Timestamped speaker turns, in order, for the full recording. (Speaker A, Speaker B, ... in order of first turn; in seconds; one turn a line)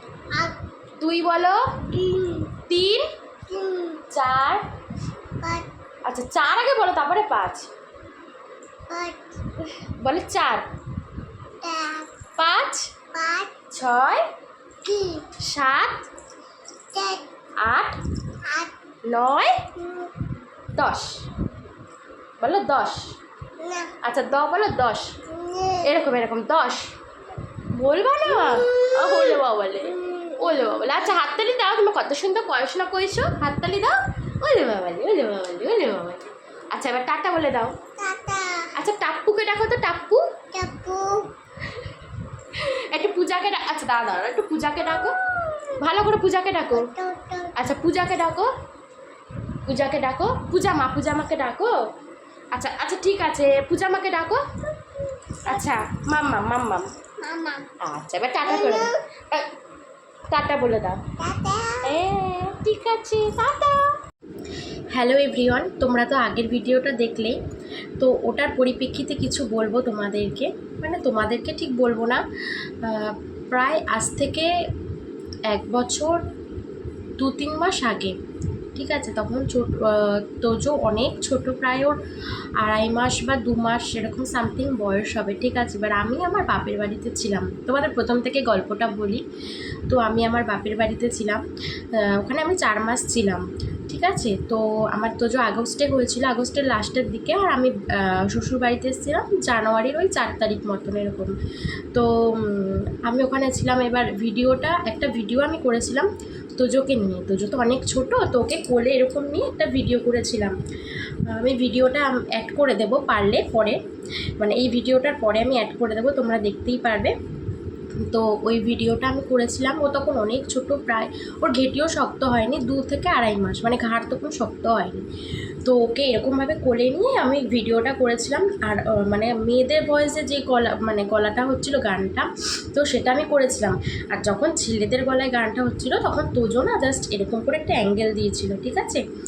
Speaker A: 1.0-1.9
Speaker B: 2.0-2.5
Speaker A: 2.6-3.1
Speaker B: 3.5-4.0
Speaker A: 4.1-4.7
Speaker B: 5.4-5.7
Speaker A: 6.0-7.7
Speaker B: 8.9-9.4
Speaker A: 9.8-10.7
Speaker B: 11.6-12.1
Speaker A: 12.4-12.9
Speaker B: 13.1-13.5
Speaker A: 13.7-14.2
Speaker B: 14.8-15.3
Speaker A: 15.4-16.0
Speaker B: 16.9-17.2
Speaker A: 17.6-18.0
Speaker B: 18.4-18.7
Speaker A: 19.1-19.8
Speaker B: 19.8-20.1
Speaker A: 20.7-21.2
Speaker A: 22.4-23.1
Speaker B: 23.6-23.9
Speaker A: 24.0-25.1
Speaker B: 25.3-25.9
Speaker A: 25.8-26.9
Speaker A: 27.8-37.8
Speaker B: 28.4-29.4
Speaker B: 29.9-30.6
Speaker B: 38.0-38.7
Speaker A: 38.7-40.4
Speaker B: 40.5-41.3
Speaker A: 42.5-45.2
Speaker A: 45.8-46.9
Speaker B: 46.7-47.5
Speaker A: 47.5-48.5
Speaker A: 49.6-51.8
Speaker A: 52.5-54.4
Speaker A: 55.4-56.9
Speaker B: 55.5-55.8
Speaker B: 57.2-57.7
Speaker A: 57.8-59.5
Speaker B: 58.5-59.0
Speaker A: 60.3-61.1
Speaker B: 61.2-61.9
Speaker A: 61.8-63.9
Speaker A: 64.9-67.4
Speaker A: 68.0-72.2
Speaker A: 72.8-74.5
Speaker A: 75.5-76.2
Speaker A: 77.2-78.2
Speaker A: 78.7-82.0
Speaker A: 82.6-89.2
Speaker A: 89.9-91.4
Speaker A: 91.9-101.3
Speaker A: 101.9-110.5
Speaker A: 111.3-113.8
Speaker A: 114.4-117.1
Speaker A: 118.0-125.0
Speaker A: 125.6-139.0